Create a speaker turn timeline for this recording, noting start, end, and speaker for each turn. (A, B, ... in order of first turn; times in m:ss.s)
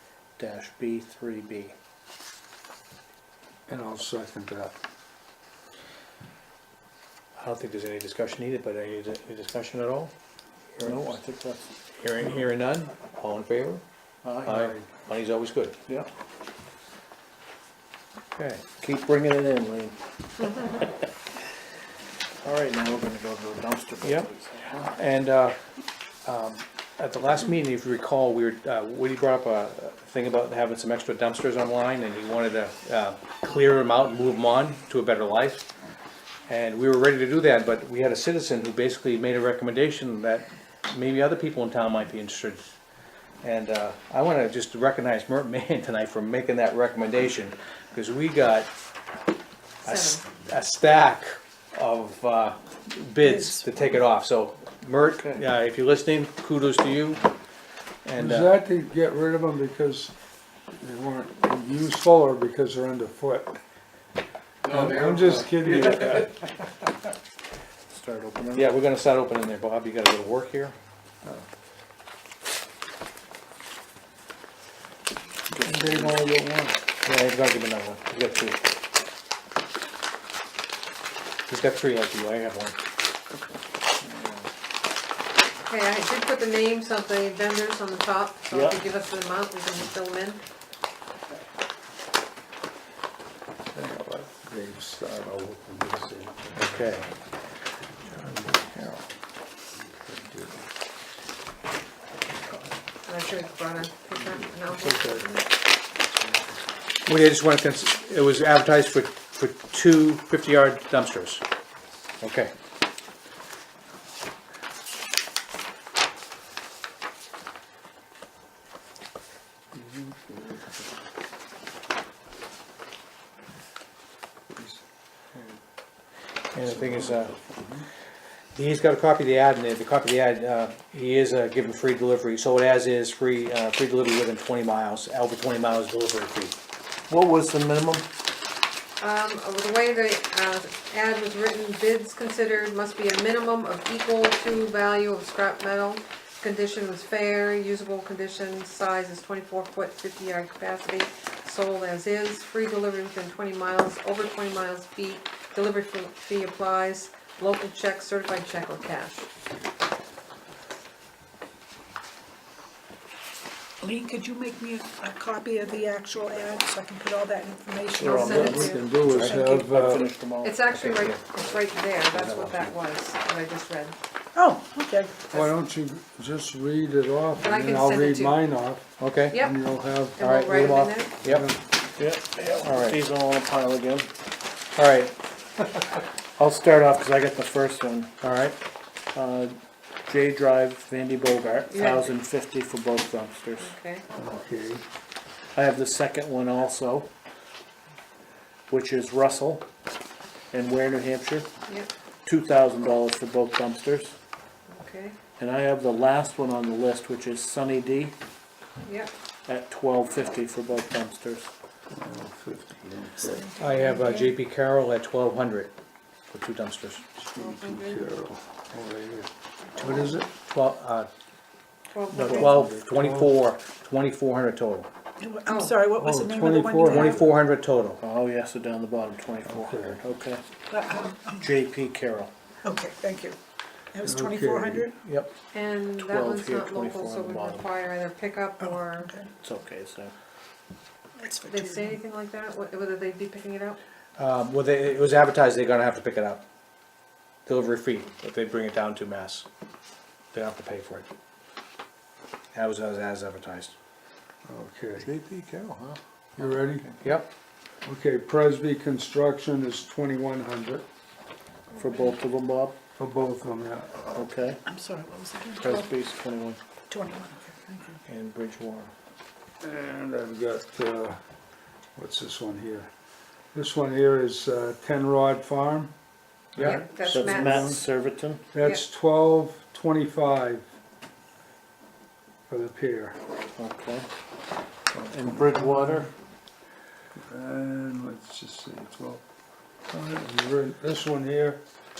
0:00.4-0:01.8 A
0:03.7-0:04.8 B
0:07.4-0:10.1 C
0:10.8-0:11.2 C
0:10.8-0:11.7 A
0:12.0-0:13.8 C
0:14.2-0:14.6 A
0:14.4-0:15.8 C
0:14.5-0:14.9 B
0:18.4-0:18.6 C
0:18.8-0:20.0 A
0:22.4-0:25.0 A
0:24.0-0:24.3 C
0:24.9-0:25.6 C
0:26.2-0:35.6 C
0:36.5-0:42.7 C
0:43.4-0:48.7 C
0:49.8-0:50.2 D
0:49.8-0:57.2 C
0:55.0-0:55.4 A
0:58.0-0:58.5 C
0:58.2-1:00.1 B
1:00.8-1:03.6 B
1:04.7-1:06.4 B
1:04.7-1:06.3 A
1:04.8-1:05.1 C
1:05.7-1:06.1 C
1:07.9-1:08.7 A
1:08.5-1:10.8 C
1:15.5-1:16.2 A
1:15.6-1:16.8 B
1:17.0-1:18.6 C
1:21.5-1:22.8 C
1:25.6-1:30.4 D
1:28.5-1:28.8 A
1:33.7-1:36.7 B
1:36.6-1:37.1 A
1:38.1-1:39.0 C
1:40.0-1:40.6 B
1:43.1-1:45.4 D
1:44.7-1:45.3 B
1:47.0-1:51.4 C
1:52.2-1:52.5 C
1:59.7-2:00.8 B
2:04.6-2:04.8 B
2:05.3-2:05.6 B
2:06.5-2:07.4 C
2:06.6-2:07.9 B
2:08.6-2:16.6 C
2:17.1-2:18.1 A
2:19.0-2:39.3 D
2:43.8-2:49.6 E
2:48.0-2:50.9 A
2:48.0-2:49.0 D
2:48.2-2:50.1 B
2:49.0-2:49.3 C
2:50.4-2:54.0 D
2:50.8-2:51.2 C
2:52.2-2:52.7 C
2:54.4-2:55.3 E
2:55.3-3:00.3 B
2:57.4-2:58.4 D
2:59.0-2:59.4 C
2:59.3-2:59.6 D
3:00.2-3:01.2 D
3:00.2-3:01.4 C
3:01.2-3:01.6 B
3:02.0-3:04.1 A
3:02.6-3:03.0 C
3:04.7-3:05.2 C
3:06.4-3:08.1 A
3:08.2-3:08.6 C
3:09.1-3:09.5 A
3:10.1-3:13.7 A
3:11.7-3:12.1 D
3:13.6-3:14.0 D
3:14.2-3:14.8 B
3:15.6-3:17.1 A
3:18.7-3:19.7 A
3:20.5-3:21.5 A
3:22.2-3:24.2 A
3:24.7-3:25.2 D
3:25.4-3:28.2 A
3:28.8-3:29.1 D
3:29.5-3:31.5 A
3:31.9-3:33.5 B
3:33.2-3:34.4 E
3:33.6-3:35.7 C
3:36.3-3:37.1 C
3:37.2-3:40.3 B
3:37.4-3:38.0 D
3:40.4-3:41.1 C
3:41.9-3:42.7 D
3:42.1-3:44.9 C
3:42.4-3:43.3 B
3:45.2-3:47.3 E
3:45.5-3:45.8 D
3:46.0-3:47.2 B
3:46.8-3:48.0 C
3:48.0-3:50.4 A
3:49.4-3:50.0 B
3:50.7-3:51.4 E
3:51.4-3:52.3 A
3:52.6-3:53.4 E
3:53.9-3:55.0 E
3:54.0-3:54.9 B
3:55.1-3:55.3 A
3:55.5-3:59.1 D
3:56.0-3:57.7 A
3:58.6-3:59.3 E
3:59.4-4:00.1 A
4:01.2-4:02.0 E
4:01.5-4:03.8 D
4:04.2-4:06.4 C
4:07.5-4:09.5 C
4:10.3-4:11.1 C
4:12.5-4:13.7 C
4:14.4-4:15.1 B
4:15.0-4:17.0 A
4:16.4-4:16.9 B
4:17.0-4:17.3 C
4:17.8-4:20.9 B
4:21.8-4:22.8 A
4:23.0-4:24.2 B
4:24.1-4:24.6 A
4:24.6-4:25.8 E
4:25.6-4:26.6 A
4:26.9-4:28.0 E
4:28.1-4:28.9 A
4:29.6-4:31.2 B
4:32.0-4:32.9 B
4:33.5-4:35.9 B
4:36.5-4:37.8 B
4:36.6-4:38.4 A
4:36.6-4:37.7 D
4:38.5-4:40.7 B
4:42.5-4:43.2 B
4:43.6-4:44.1 A
4:44.9-4:46.1 B
4:45.1-4:46.1 A
4:47.2-4:49.2 B
4:49.9-4:51.6 B